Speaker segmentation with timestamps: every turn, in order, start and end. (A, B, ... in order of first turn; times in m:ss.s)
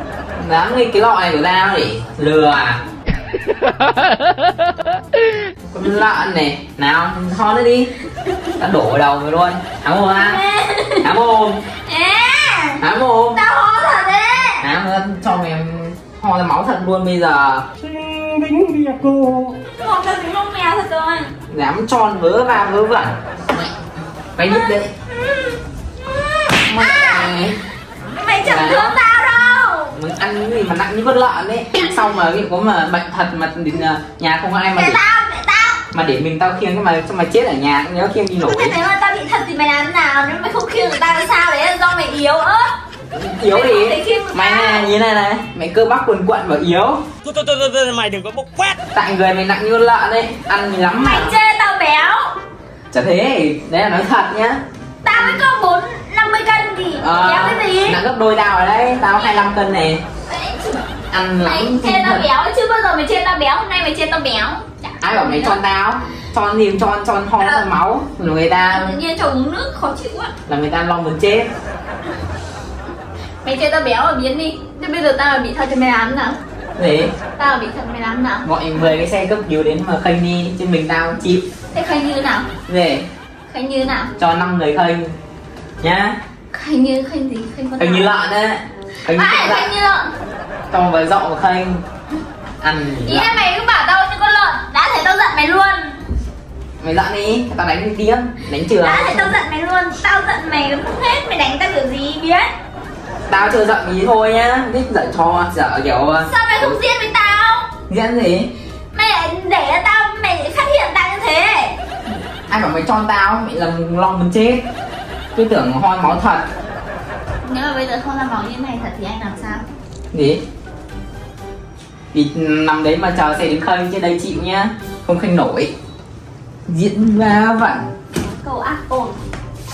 0:00.4-0:02.8 A
0:05.7-0:07.9 A
0:08.5-0:10.4 A
0:10.1-0:11.1 B
0:11.0-0:11.6 A
0:11.7-0:14.7 B
0:12.8-0:13.4 A
0:14.6-0:17.7 A
0:17.9-0:19.4 C
0:19.6-0:21.3 B
0:21.5-0:23.7 A
0:24.4-0:24.9 A
0:24.4-0:25.6 B
0:26.2-0:27.5 B
0:26.6-0:27.6 A
0:28.0-0:29.9 B
0:28.4-0:29.0 A
0:29.9-0:35.0 A
0:34.7-0:35.8 B
0:35.9-0:38.8 A
0:38.4-0:42.8 B
0:43.1-0:47.0 A
0:43.5-0:44.9 B
0:47.2-0:48.8 C
0:48.9-0:51.3 A
0:50.9-0:52.3 B
0:52.9-0:54.6 A
0:55.0-0:58.0 B
0:55.1-0:55.4 A
0:57.0-1:00.0 A
1:00.3-1:05.6 B
1:01.1-1:02.2 A
1:05.0-1:09.0 A
1:07.4-1:07.6 B
1:08.7-1:10.3 B
1:10.5-1:11.5 A
1:13.4-1:16.4 B
1:16.8-1:17.1 A
1:17.4-1:18.5 B
1:18.4-1:21.4 A
1:21.7-1:22.5 B
1:22.7-1:23.1 A
1:23.5-1:24.1 B
1:24.2-1:25.1 A
1:25.8-1:26.2 A
1:26.5-1:28.1 B
1:27.8-1:29.7 A
1:29.0-1:30.1 B
1:30.7-1:31.8 A
1:32.6-1:33.4 A
1:33.0-1:36.0 B
1:36.8-1:39.4 A
1:38.8-1:42.5 B
1:43.3-1:46.3 A
1:46.2-1:47.7 B
1:47.9-1:48.5 A
1:48.9-1:51.8 B
1:52.5-1:54.6 A
1:55.3-1:56.5 A
1:57.4-1:59.6 B
2:00.1-2:00.4 A
2:02.1-2:05.7 A
2:06.7-2:07.9 A
2:08.2-2:09.2 B